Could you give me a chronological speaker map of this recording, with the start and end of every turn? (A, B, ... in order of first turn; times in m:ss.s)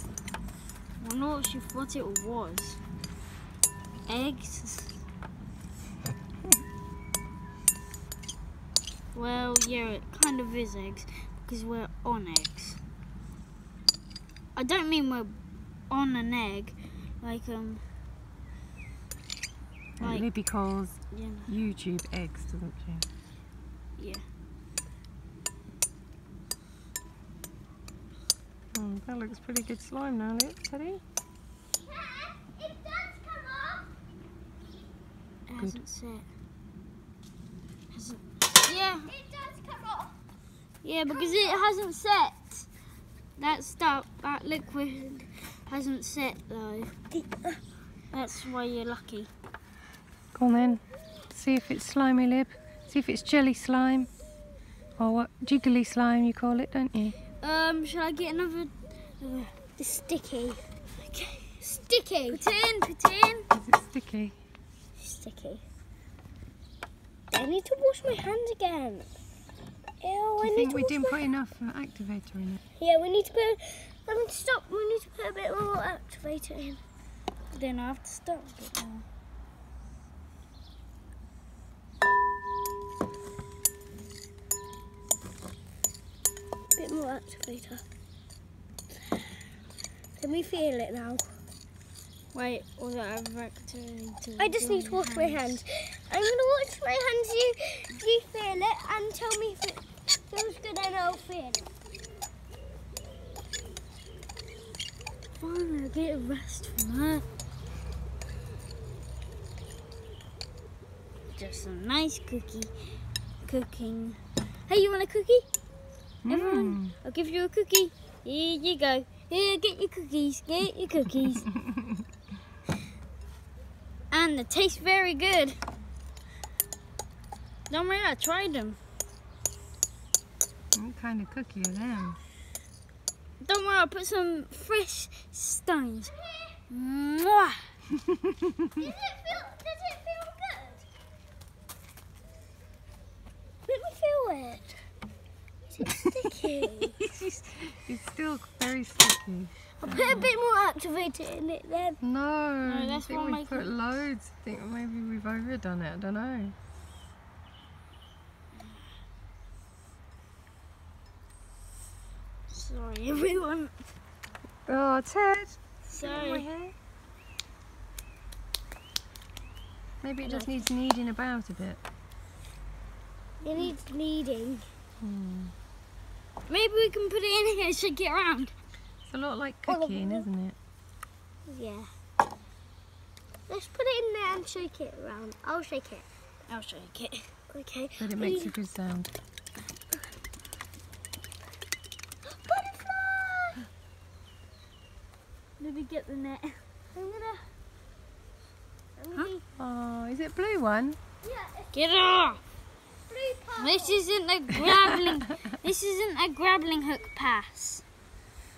0:01.0-0:02.8 A
0:04.1-0:05.0 A
0:09.1-0:12.8 A
0:14.6-0:15.4 A
0:15.9-0:17.8 A
0:20.0-0:23.1 B
0:20.0-0:20.3 A
0:21.1-0:21.5 A
0:24.0-0:24.2 A
0:28.7-0:31.0 B
0:31.8-0:33.9 C
0:35.5-0:36.3 A
0:37.9-0:39.1 A
0:39.0-0:40.1 C
0:40.8-0:42.7 A
0:41.1-0:41.8 C
0:43.4-0:47.0 A
0:47.1-0:47.6 C
0:48.1-0:49.3 A
0:50.3-0:54.1 B
0:55.0-0:57.2 B
0:57.4-0:59.6 A
0:59.8-1:00.6 C
1:01.0-1:03.5 A
1:01.6-1:02.5 C
1:03.5-1:04.4 B
1:05.1-1:05.6 A
1:07.3-1:09.1 C
1:10.0-1:11.3 C
1:10.4-1:12.6 B
1:12.8-1:16.8 C
1:17.5-1:19.0 A
1:26.8-1:27.8 C
1:30.2-1:31.3 C
1:32.3-1:35.6 A
1:34.4-1:41.7 C
1:45.4-1:47.3 A
1:51.3-1:52.7 A
1:53.4-1:55.5 A
1:56.2-1:57.0 B
1:56.3-2:01.5 A
2:04.1-2:05.6 A
2:07.7-2:08.8 A
2:10.7-2:12.2 B
2:13.4-2:16.1 A
2:16.7-2:17.7 A
2:18.8-2:20.9 C
2:23.7-2:24.8 C
2:25.7-2:27.0 C
2:27.2-2:30.3 B
2:29.8-2:32.0 C
2:32.0-2:36.6 B
2:32.6-2:33.7 A
2:42.5-2:43.7 A
2:44.7-2:46.7 B
2:45.8-2:46.5 A
2:50.0-2:51.8 B
2:50.2-2:50.5 C
2:53.4-2:54.6 C
2:55.0-2:55.5 B
2:56.5-2:58.5 A
2:59.1-3:00.6 B
2:59.7-3:00.3 C
3:01.5-3:01.9 C
3:03.5-3:06.0 C
3:06.5-3:07.3 A
3:07.5-3:08.6 C
3:08.0-3:09.1 B
3:12.3-3:13.7 C
3:15.6-3:16.6 A
3:16.9-3:17.4 C
3:19.0-3:19.4 C
3:19.6-3:21.0 B
3:21.2-3:22.4 C
3:21.7-3:22.4 A
3:23.1-3:24.0 C
3:23.6-3:27.8 A